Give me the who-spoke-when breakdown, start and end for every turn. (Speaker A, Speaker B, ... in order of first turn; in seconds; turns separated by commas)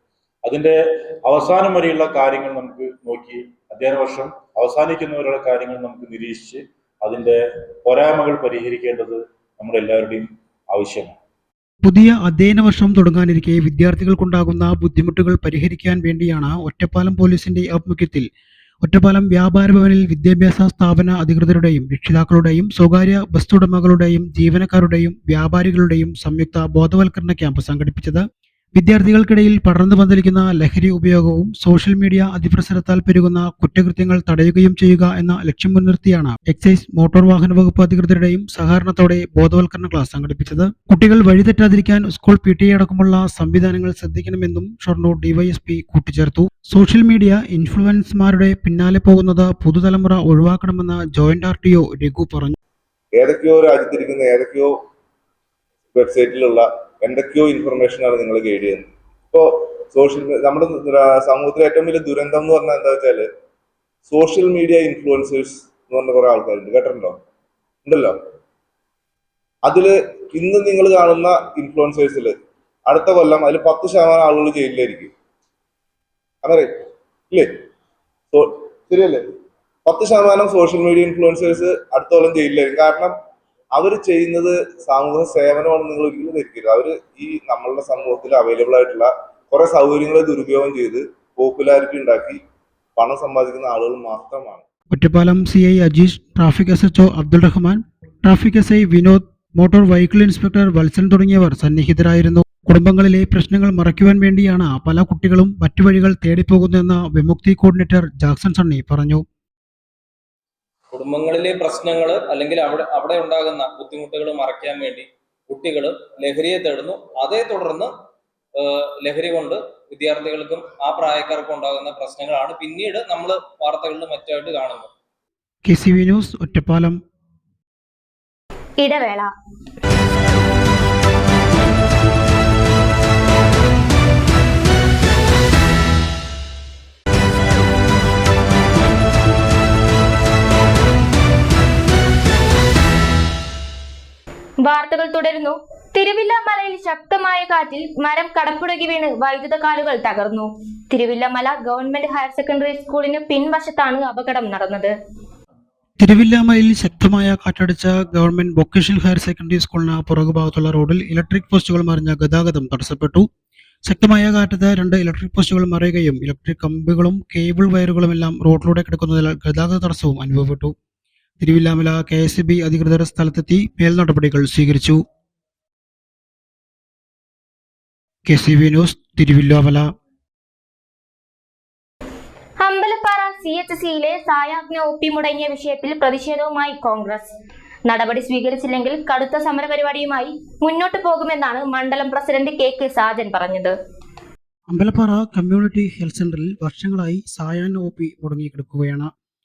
Speaker A: 0.5-11.2, Speaker B: 11.8-18.2, Speaker B: 18.8-28.2, Speaker B: 28.8-52.5, Speaker C: 53.1-54.7, Speaker C: 55.9-63.3, Speaker C: 64.1-67.2, Speaker C: 67.8-68.1, Speaker C: 69.6-72.3, Speaker C: 72.9-75.1, Speaker C: 76.4-76.7, Speaker C: 78.3-79.2, Speaker C: 79.8-83.1, Speaker C: 83.7-92.4, Speaker C: 93.0-94.6, Speaker B: 94.9-109.2, Speaker D: 110.9-117.9, Speaker D: 118.5-124.9, Speaker B: 125.7-127.0, Speaker E: 128.8-129.3, Speaker E: 144.6-154.9, Speaker B: 156.0-163.2, Speaker B: 163.8-170.7, Speaker B: 171.4-175.0, Speaker B: 178.3-179.8, Speaker E: 182.6-187.3, Speaker E: 187.9-193.7, Speaker B: 194.7-199.1